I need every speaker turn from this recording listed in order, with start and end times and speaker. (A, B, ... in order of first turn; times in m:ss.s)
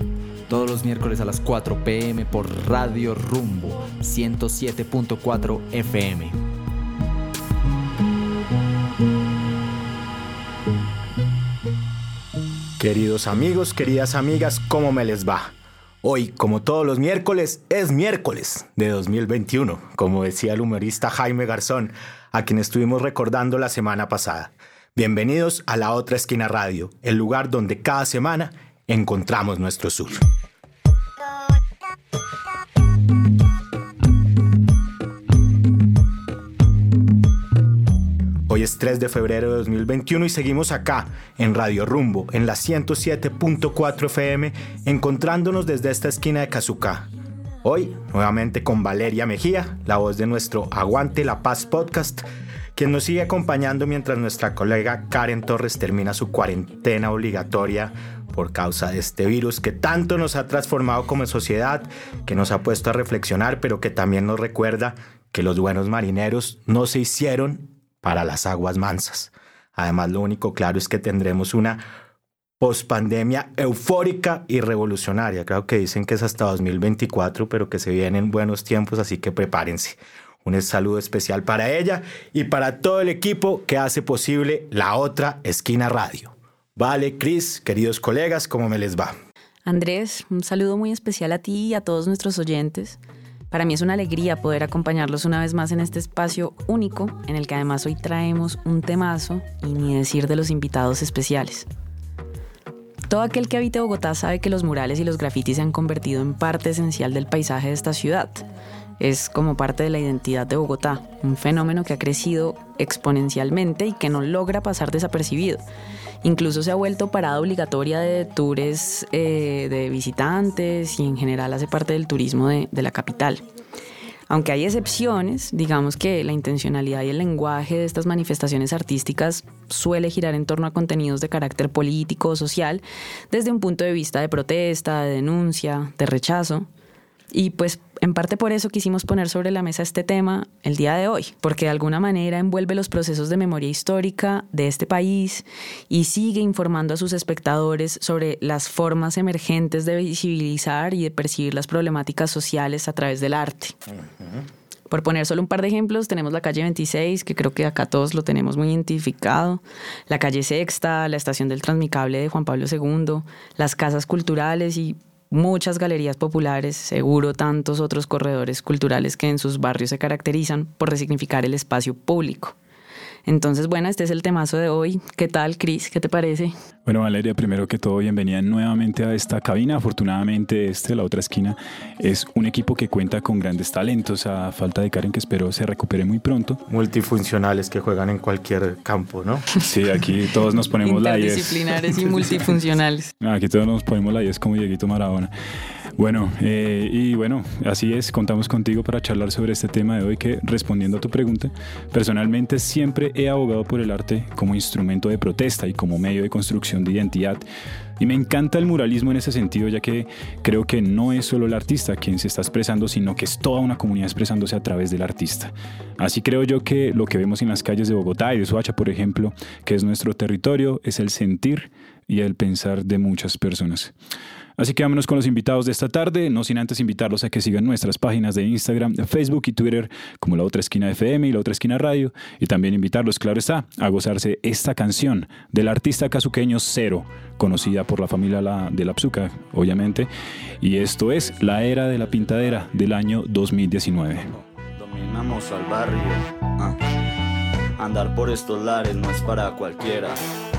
0:00.5-0:06.4 A
0:12.8-0:30.2 B
0:38.5-0:47.1 B
0:47.6-1:11.8 B
1:12.6-1:29.2 B
1:29.6-1:33.0 C
1:33.5-1:41.7 C
1:43.1-1:48.4 C
1:49.0-1:55.6 C
1:56.2-2:03.4 C
2:04.3-2:16.7 C
2:17.3-2:33.8 C
2:33.9-2:34.4 B
2:34.9-2:52.6 C
2:53.2-2:56.5 C
2:56.8-3:06.6 D
3:06.6-3:09.5 B
3:09.6-3:12.4 D
3:10.8-3:13.1 C
3:13.2-3:15.3 D
3:16.0-3:27.4 D
3:28.0-3:43.9 D
3:44.6-4:00.1 D
4:00.6-4:04.3 D
4:04.3-4:06.8 E
4:07.8-4:10.2 E